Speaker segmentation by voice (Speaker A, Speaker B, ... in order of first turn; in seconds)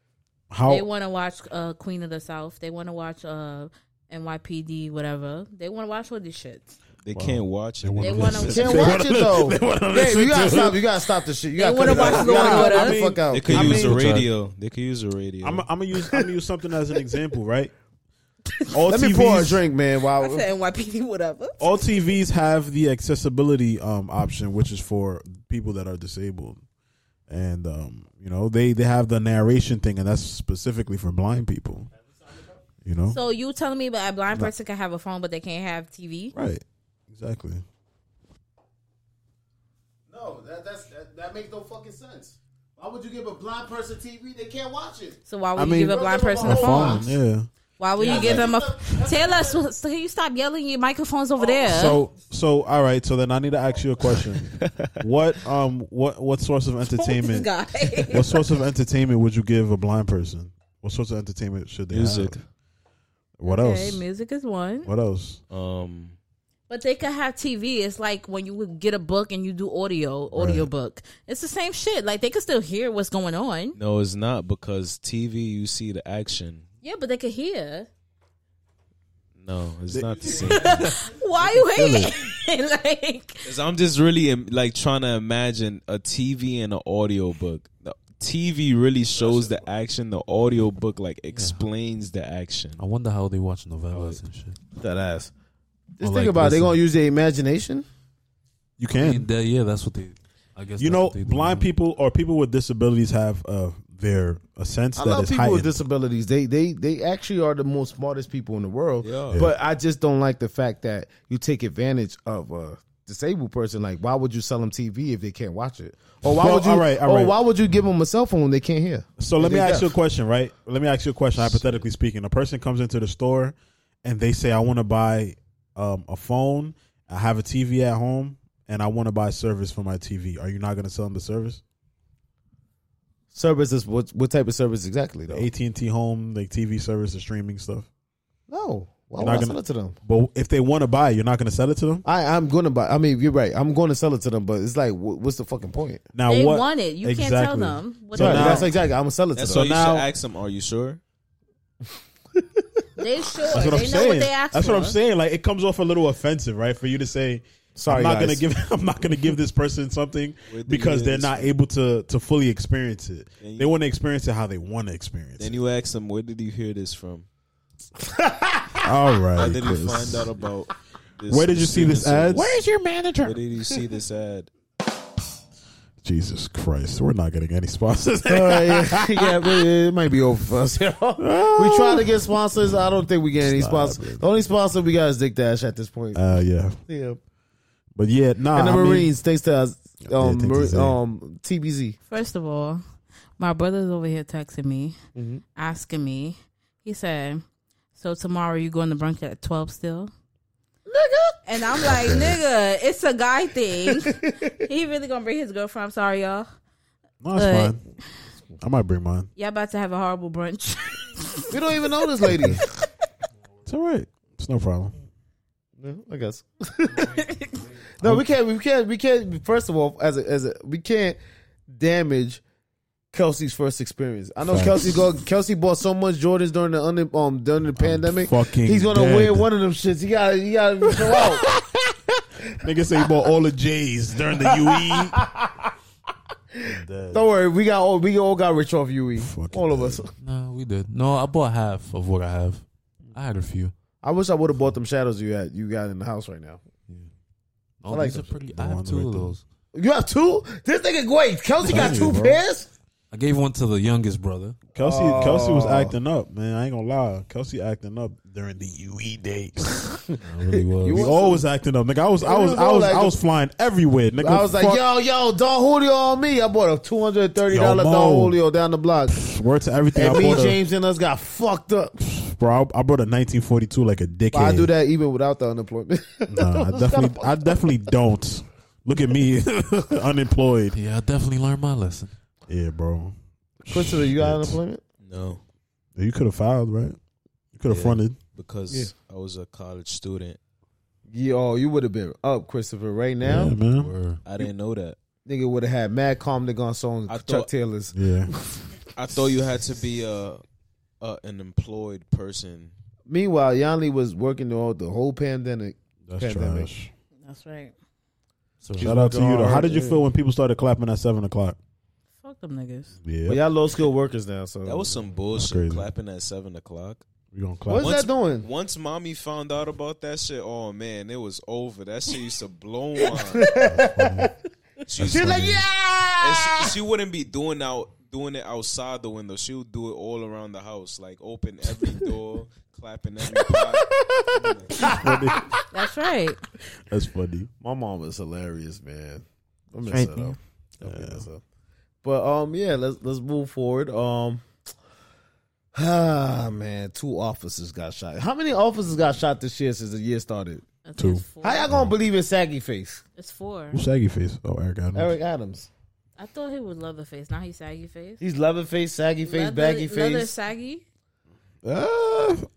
Speaker A: 0.5-0.9, 7.1-10.8, 11.8-14.3, 15.4-17.7, 18.7-19.6, 21.6-26.6, 27.3-31.9, 32.8-33.2, 36.3-37.6, 45.6-47.5, 48.1-48.4, 51.6-57.5, 58.1-62.4, 63.4-64.0, 64.8-65.4, 70.3-70.7, 79.9-80.9, 81.7-82.1, 98.8-99.3, 100.8-105.8, 116.2-117.3, 119.2-131.6, 135.3-137.9, 139.2-142.0, 146.1-148.7, 149.4-150.1, 153.5-165.6, 168.8-170.3, 171.3-173.3, 176.0-179.6, 181.2-182.2, 183.3-184.3, 186.1-186.8, 187.9-189.1, 190.0-191.0, 201.8-202.4, 207.2-207.8, 208.6-209.3, 212.3-212.6, 213.7-214.9, 224.4-225.0, 227.8-229.4, 232.6-235.2, 236.6-237.2, 239.2-240.0, 248.5-249.3, 251.6-252.4, 254.7-259.8, 260.9-264.8, 267.5-268.4, 269.2-270.6, 272.1-274.7, 276.3-280.8, 282.5-284.6, 285.9-287.0, 287.5-288.2, 293.2-293.9, 297.9-298.3, 306.1-306.9, 308.8-311.6, 313.0-313.4, 315.4-315.9, 317.3-318.0, 323.6-324.3, 325.0-325.6, 334.9-335.5, 336.9-337.5, 340.8-341.2, 351.0-351.9, 353.7-355.1, 361.6-362.4
Speaker B: 0.7-6.7, 8.0-9.0, 11.6-13.1, 20.2-21.6, 33.1-36.3, 45.2-47.1, 47.8-52.0, 57.0-58.4, 63.4-64.9, 66.7-73.8, 76.8-77.9, 80.5-83.5, 146.3-148.7, 153.0-155.0, 192.1-192.8, 193.4-194.9, 195.6-197.4, 197.9-200.1, 201.4-206.5, 207.3-207.8, 209.3-211.4, 217.2-217.5, 307.2-307.7, 312.2-312.9, 335.7-336.4, 339.9-340.3, 350.8-351.7, 353.1-353.8, 356.2-358.2, 359.2-360.8
Speaker C: 7.0-8.8, 13.3-15.7, 54.5-54.9, 61.9-62.4, 65.5-66.1, 73.7-76.7, 79.4-80.9, 83.4-92.8, 93.9-94.2, 109.0-109.4, 149.3-151.0, 160.5-161.5, 163.4-163.7, 165.4-167.3, 169.3-172.5, 173.2-174.5, 285.0-285.4, 287.7-290.4, 294.2-295.0, 297.1-297.5, 298.9-300.4, 301.0-302.7, 314.6-317.0, 317.8-323.5, 324.9-325.4, 326.2-334.9
Speaker D: 8.5-14.0, 18.9-20.4, 32.1-32.6, 40.1-47.0, 48.0-49.6, 94.8-95.3, 96.0-97.8, 105.0-119.9, 133.3-135.5, 138.5-139.9, 142.0-146.1, 148.1-149.7, 157.8-158.4, 168.1-168.7, 178.3-186.3, 186.9-187.2, 188.5-192.0, 195.1-195.4, 200.9-201.4, 204.0-204.5, 211.5-212.6, 215.8-217.2, 218.0-222.4, 223.1-231.5, 234.6-235.7, 237.1-240.1, 244.0-246.6, 247.9-248.3, 249.7-252.7, 254.8-255.9, 260.7-261.4, 262.2-263.2, 264.2-269.2, 269.9-271.9, 274.3-277.6, 283.7-284.8, 291.1-293.5, 295.2-298.6, 303.1-306.7, 308.8-310.0, 313.3-315.0, 317.7-318.5, 323.1-324.3, 325.0-326.7, 334.8-335.2, 337.6-341.4, 342.0-344.4, 345.7-350.6, 351.4-353.0, 354.9-355.7, 358.2-360.3
Speaker E: 91.3-91.6, 92.8-94.6, 96.0-96.8, 98.9-101.7, 172.4-173.2, 240.2-243.7, 247.8-249.4, 253.1-254.6, 260.2-261.1, 280.7-282.1, 293.7-294.2, 308.6-308.9